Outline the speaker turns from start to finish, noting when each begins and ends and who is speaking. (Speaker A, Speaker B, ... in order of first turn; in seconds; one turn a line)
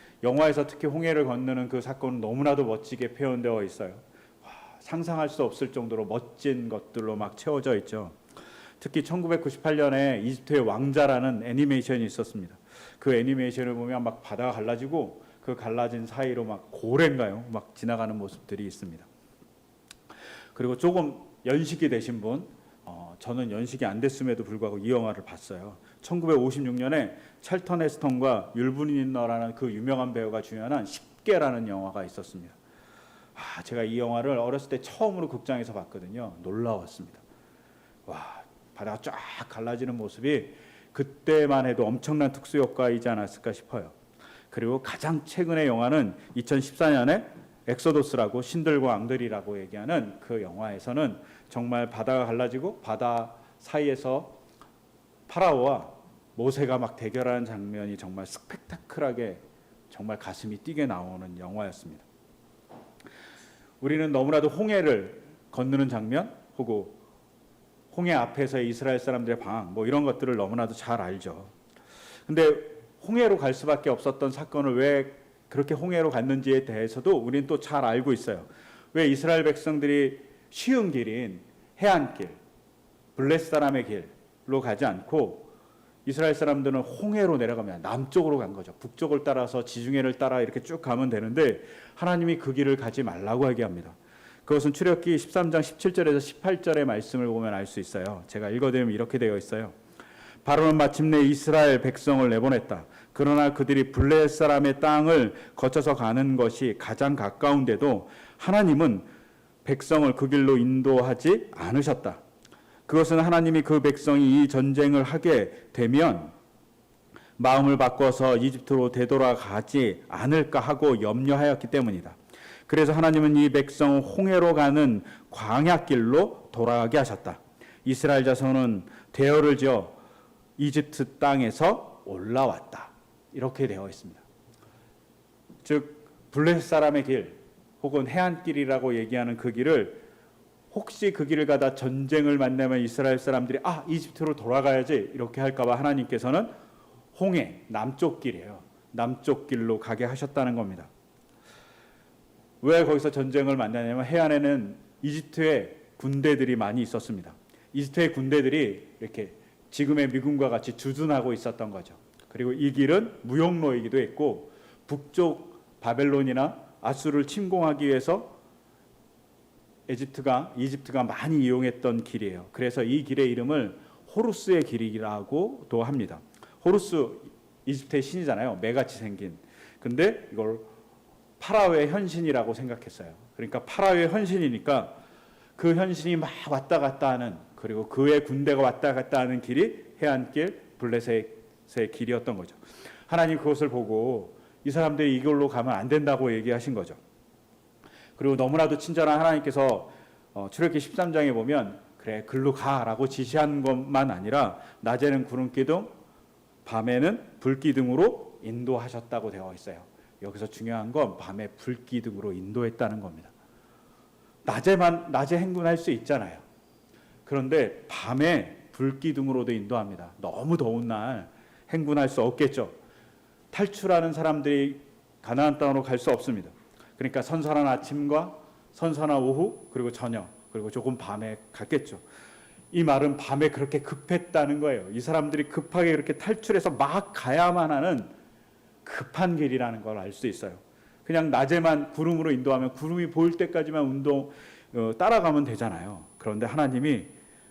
Speaker A: 0.2-8.2
Speaker A: 8.8-19.1
Speaker A: 20.6-32.6
Speaker A: 33.4-37.2
Speaker A: 38.1-44.0
Speaker A: 44.5-54.4
Speaker A: 55.3-62.1
Speaker A: 63.8-67.0
Speaker A: 67.9-71.5
Speaker A: 72.3-82.4
Speaker A: 83.2-85.5
Speaker A: 86.0-99.8
Speaker A: 100.5-109.1
Speaker A: 109.7-112.2
Speaker A: 112.9-116.3
Speaker A: 117.4-130.0
Speaker A: 130.6-134.2
Speaker A: 135.6-140.0
Speaker A: 140.7-146.5
Speaker A: 147.2-150.9
Speaker A: 152.6-168.4
Speaker A: 169.9-180.7
Speaker A: 181.4-185.0
Speaker A: 185.6-197.0
Speaker A: 198.2-205.9
Speaker A: 206.7-213.3
Speaker A: 214.4-216.4
Speaker A: 217.3-222.8
Speaker A: 223.5-232.0
Speaker A: 232.7-238.1
Speaker A: 238.8-247.1